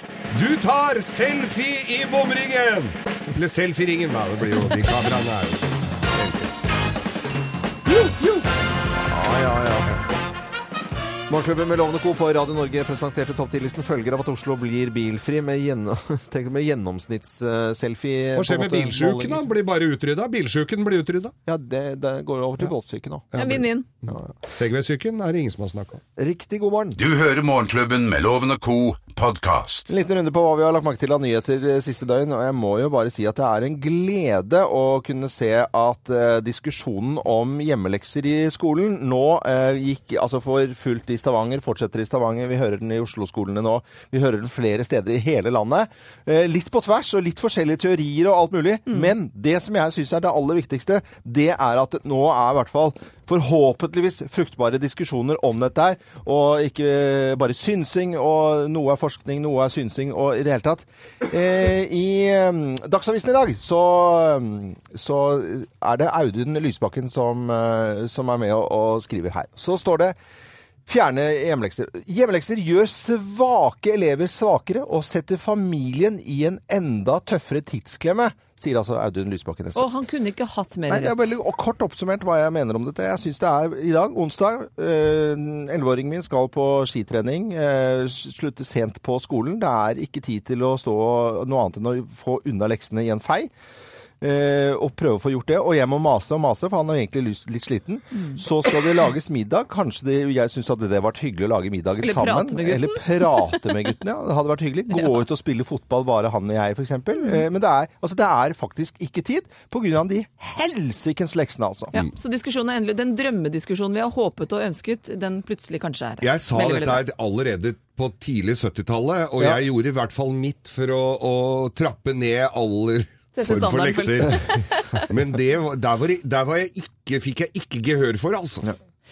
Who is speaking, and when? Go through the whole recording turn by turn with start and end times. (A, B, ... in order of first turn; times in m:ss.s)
0:00.3-0:06.5 A
0:07.9-0:08.4 A
0:08.9-0:10.0 B
0:11.3-0:19.5 B
0:18.4-0:21.3 A
0:21.5-0:23.4 B
0:23.3-0:26.0 A
0:23.4-0:23.9 C
0:26.2-0:27.0 B
0:27.0-0:29.9 D
0:29.9-1:10.2 B
1:10.9-1:19.9 B
1:19.8-1:21.3 C
1:20.9-1:33.5 B
1:34.2-1:51.9 B
1:38.1-1:38.4 C
1:42.0-1:43.6 C
1:44.9-1:45.2 C
1:47.2-1:47.4 C
1:51.9-1:57.0 C
1:56.2-2:08.7 A
2:03.3-2:04.9 C